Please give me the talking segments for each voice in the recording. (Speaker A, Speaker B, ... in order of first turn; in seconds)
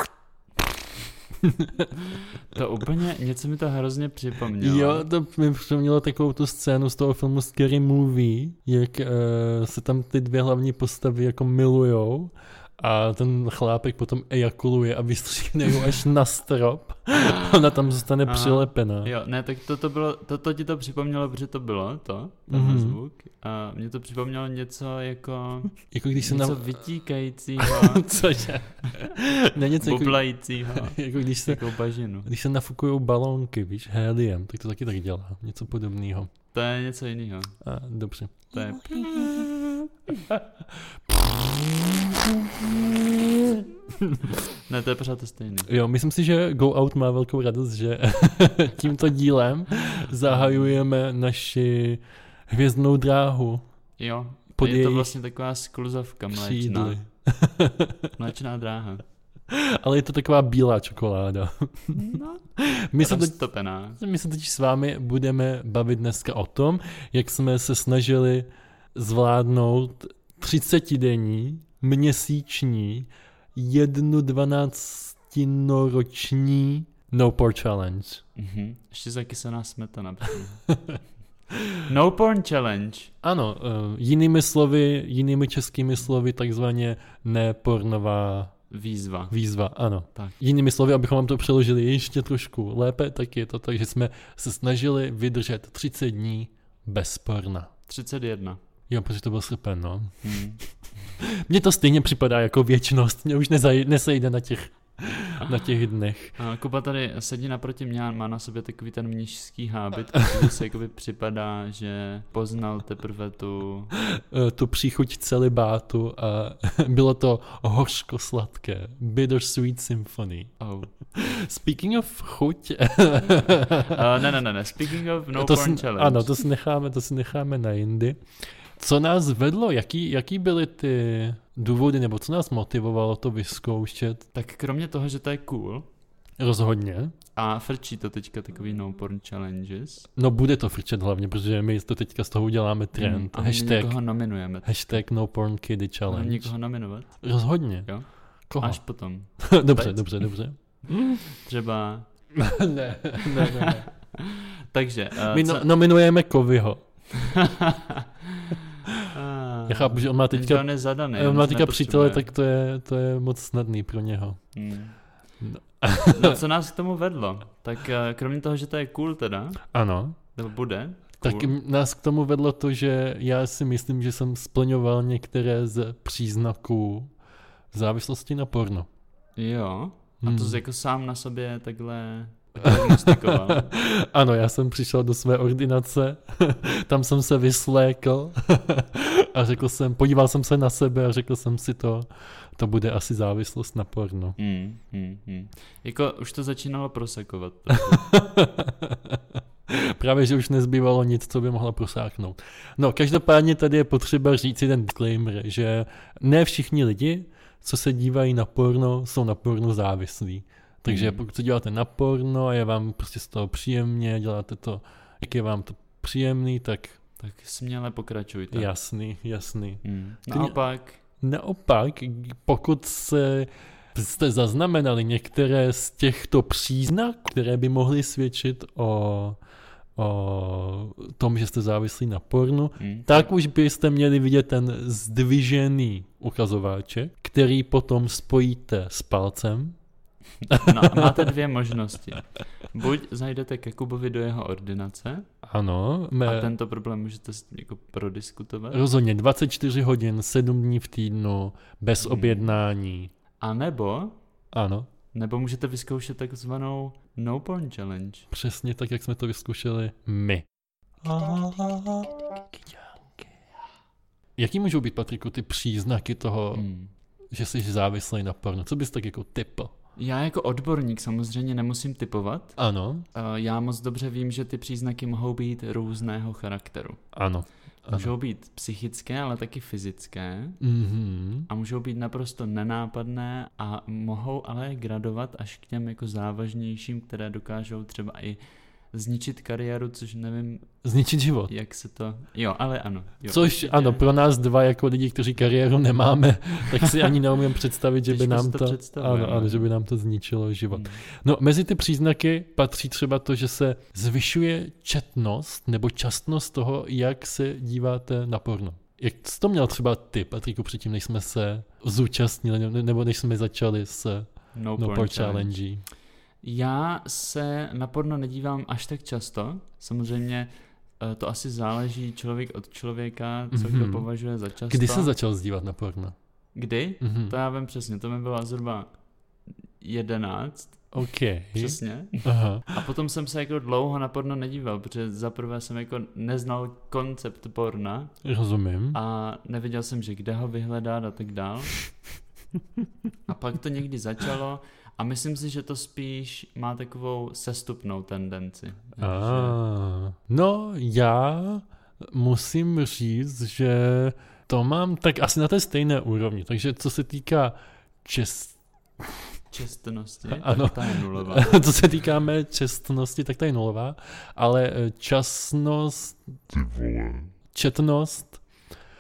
Speaker A: 1.4-1.9, 4.6-19.1, 22.5-23.0, 25.9-26.6, 27.6-31.6, 32.3-36.3, 37.6-44.4, 45.6-53.6, 54.6-55.1, 56.3-58.1, 59.5-63.4, 64.0-78.2, 80.7-81.0, 81.5-81.8, 83.2-88.5, 89.3-97.7, 98.9-100.4, 101.2-106.4, 114.0-120.5, 121.1-124.0, 125.4-128.2, 128.8-134.2, 136.4-137.1, 140.2-144.0, 144.7-146.5, 147.2-147.9, 148.5-148.8, 149.4-151.2, 152.3-153.9, 155.3-156.8, 159.7-164.4, 165.4-166.4, 169.7-170.2, 171.2-177.1, 177.7-178.9, 180.2-180.6, 182.7-194.4, 197.7-217.0, 218.5-220.6, 221.2-229.4, 230.0-239.8, 240.5-241.1, 245.4-246.5, 248.7-253.1, 254.5-254.9, 258.3-260.4, 261.0-262.5, 264.4-266.7, 267.3-269.7, 272.6-273.1, 277.1-278.1, 280.6-281.5, 290.8-291.5, 293.3-315.8, 323.5-324.1, 324.7-326.1, 327.0-327.3, 330.9-332.7, 338.2-339.0, 349.0-359.2, 360.3-368.4
Speaker B: 2.0-5.1, 17.2-17.6, 18.2-28.2, 29.8-32.3, 36.5-37.6, 38.5-39.5, 44.5-45.7, 50.2-50.8, 54.0-57.0, 58.2-59.0, 61.9-62.4, 63.0-64.0, 78.4-80.6, 81.8-83.1, 88.7-89.4, 97.9-98.6, 100.2-101.1, 105.4-105.7, 106.4-113.9, 120.6-120.9, 123.9-126.3, 134.3-135.9, 137.3-140.1, 143.0-145.0, 146.1-147.2, 148.6-150.2, 150.9-152.1, 153.2-155.7, 157.1-162.3, 164.5-165.0, 166.1-169.6, 170.3-171.5, 179.4-183.7, 194.4-198.1, 210.9-211.2, 217.2-218.7, 219.8-221.0, 232.8-233.3, 240.6-245.3, 246.2-248.8, 252.0-252.5, 253.4-254.2, 255.1-258.3, 266.5-266.9, 270.0-272.6, 273.1-277.0, 277.9-280.6, 281.5-288.4, 288.9-290.7, 291.5-294.1, 298.1-299.7, 300.7-301.0, 314.5-315.6, 316.4-320.5, 321.0-325.1, 326.6-328.9, 329.8-330.9, 331.5-338.1, 338.9-341.8, 343.3-349.6, 359.5-361.6